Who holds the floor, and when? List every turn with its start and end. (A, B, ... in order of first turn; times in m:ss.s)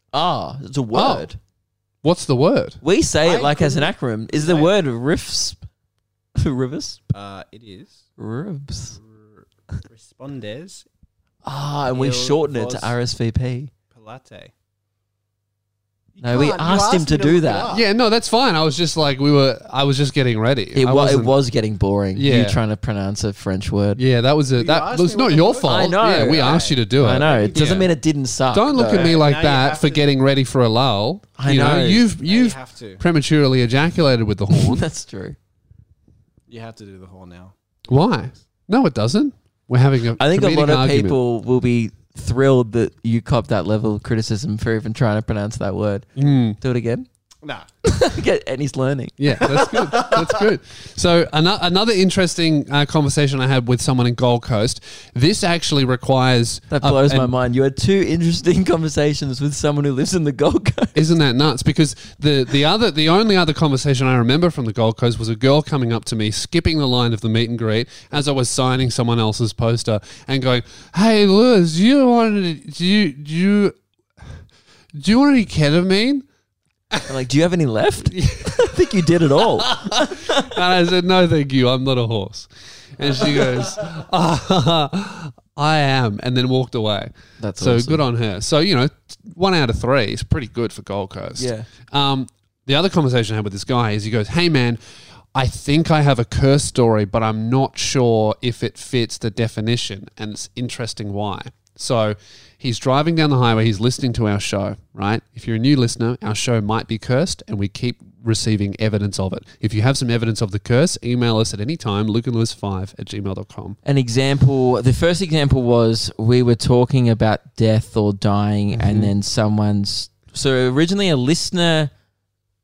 0:00.1-0:01.4 A
0:00.9-0:01.3 B
0:02.0-0:02.8 B
0:02.8-0:05.6 A
0:03.2-0:04.7 C
0:06.4-0:07.0 A
0:07.1-0:08.0 C
0:08.2-0:09.0 A
0:09.9-0:10.9 C
0:11.4-0:13.7 A
0:11.9-0:12.9 C
0:13.9-0:14.5 C
0:16.2-0:17.9 C
0:16.2-0:17.7 A
0:17.7-0:21.3 B
0:20.8-0:24.0 A
0:22.2-0:22.6 B
0:24.0-0:27.9 B
0:24.6-0:27.9 C
0:25.6-0:29.2 A
0:28.5-0:34.8 B
0:28.8-0:30.1 C
0:31.4-0:32.1 A
0:32.1-0:33.0 C
0:34.5-0:35.4 A
0:36.5-0:37.6 C
0:37.9-0:41.2 B
0:40.2-0:47.1 A
0:46.2-0:46.6 B
0:47.8-0:49.2 A
0:49.2-0:57.3 B
0:49.6-0:50.3 C
0:56.7-1:01.0 A
1:01.0-1:13.8 B
1:15.0-1:16.3 B
1:17.0-1:20.5 A
1:18.1-1:18.9 B
1:19.4-1:34.8 B
1:27.4-1:28.0 A
1:31.4-1:31.7 A
1:35.3-1:53.8 B
1:53.8-2:01.9 A
1:58.7-1:59.1 B